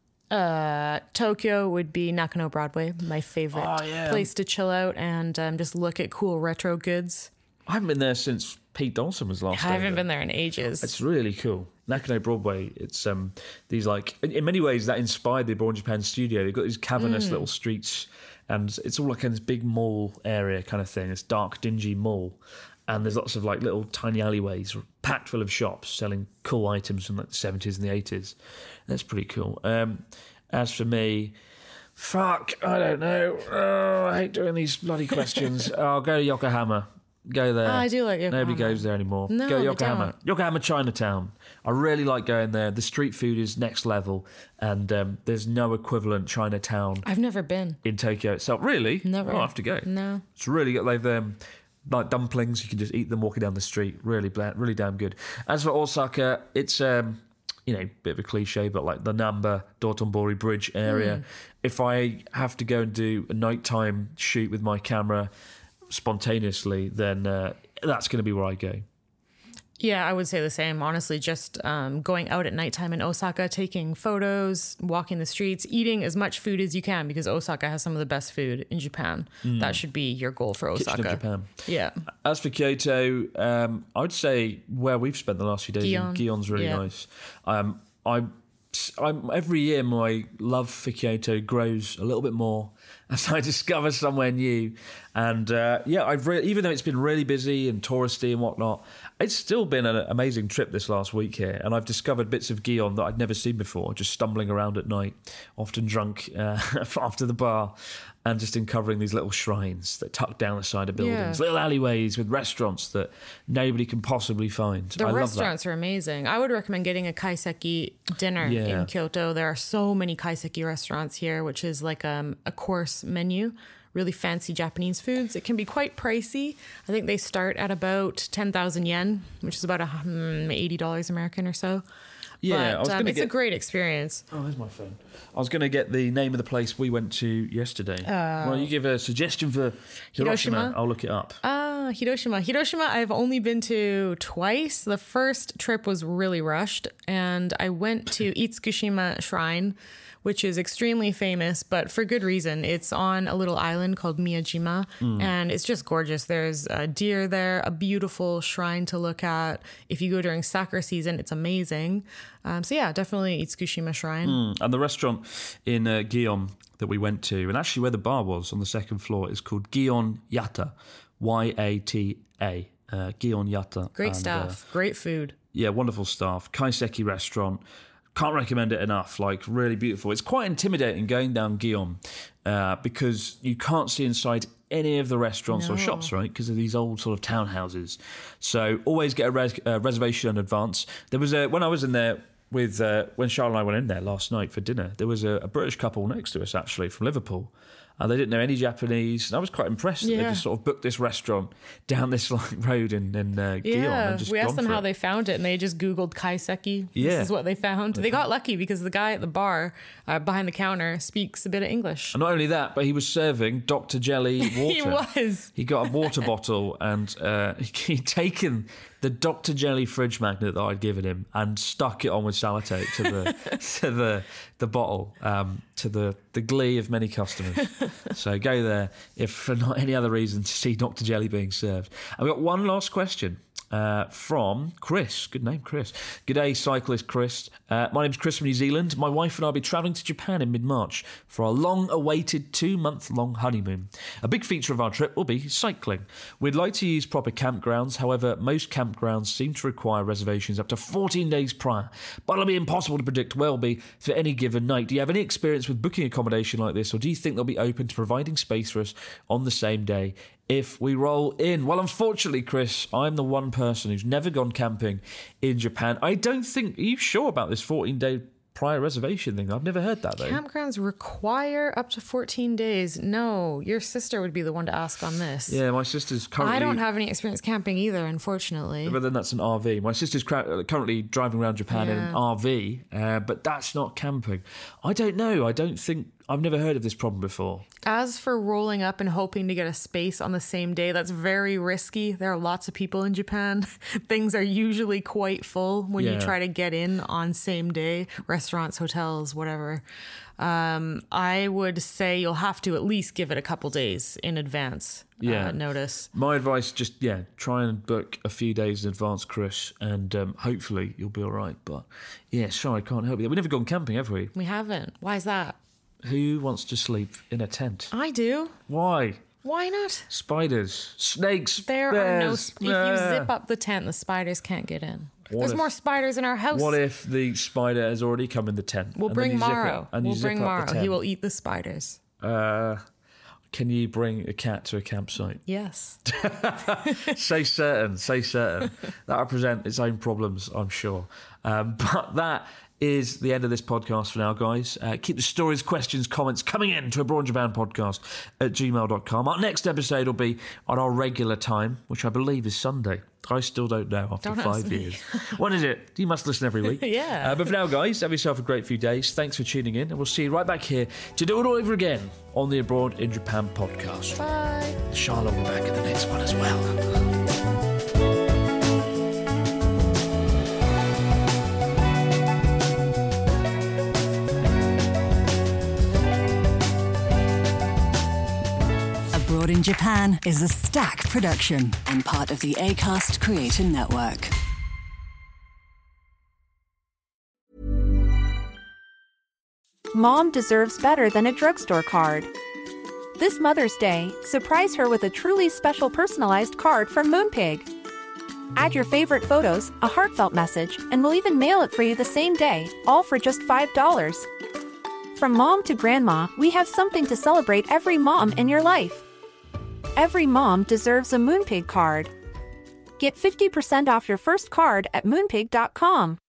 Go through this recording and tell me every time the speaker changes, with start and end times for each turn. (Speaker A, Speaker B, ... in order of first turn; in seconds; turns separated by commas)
Speaker A: 0.3-7.3, Speaker B: 3.5-4.3, Speaker B: 7.7-10.1, Speaker A: 9.5-11.0, Speaker B: 10.8-31.4, Speaker A: 17.0-17.5, Speaker B: 32.0-47.1, Speaker A: 37.6-40.1, Speaker A: 47.0-47.8, Speaker B: 47.8-65.3, Speaker A: 49.0-50.2, Speaker A: 60.9-61.2, Speaker B: 65.9-68.8, Speaker A: 69.8-82.0, Speaker B: 79.4-79.8, Speaker B: 80.7-81.5, Speaker B: 82.1-115.5, Speaker A: 85.8-86.8, Speaker A: 111.0-111.4, Speaker A: 115.0-131.8, Speaker B: 118.4-118.9, Speaker B: 132.4-133.3, Speaker A: 132.5-134.2, Speaker B: 134.3-141.4, Speaker A: 138.0-138.7, Speaker A: 140.2-140.8, Speaker A: 141.4-164.4, Speaker B: 155.0-155.3, Speaker B: 164.2-174.6, Speaker A: 174.0-175.3, Speaker B: 175.5-177.6, Speaker B: 178.2-204.8, Speaker A: 185.5-186.1, Speaker A: 200.0-200.4, Speaker A: 203.6-212.2, Speaker B: 206.9-207.3, Speaker B: 207.9-208.2, Speaker B: 212.1-270.4, Speaker A: 214.4-216.1, Speaker A: 223.1-223.3, Speaker A: 270.2-275.6, Speaker B: 275.5-276.8, Speaker A: 276.4-279.0, Speaker B: 278.8-287.7, Speaker A: 281.7-282.2, Speaker A: 287.9-299.8, Speaker B: 296.0-296.4, Speaker A: 300.4-306.1, Speaker B: 305.2-314.3, Speaker A: 314.3-315.6, Speaker B: 316.0-317.9, Speaker A: 317.9-318.6, Speaker B: 318.7-319.3, Speaker A: 319.4-320.1, Speaker B: 320.1-323.3, Speaker A: 321.6-326.8, Speaker B: 325.3-325.7, Speaker B: 326.5-331.0, Speaker A: 329.0-332.0, Speaker B: 332.2-332.9, Speaker B: 333.5-335.4, Speaker A: 335.5-336.1, Speaker B: 336.1-364.2, Speaker A: 336.6-337.1, Speaker A: 354.2-355.4, Speaker A: 356.7-357.6, Speaker A: 364.2-364.8, Speaker B: 364.9-367.1, Speaker C: 379.1-384.3, Speaker D: 389.9-392.3, Speaker D: 393.2-397.7, Speaker D: 398.6-404.3, Speaker D: 405.1-409.1, Speaker D: 410.0-412.1, Speaker D: 413.0-416.2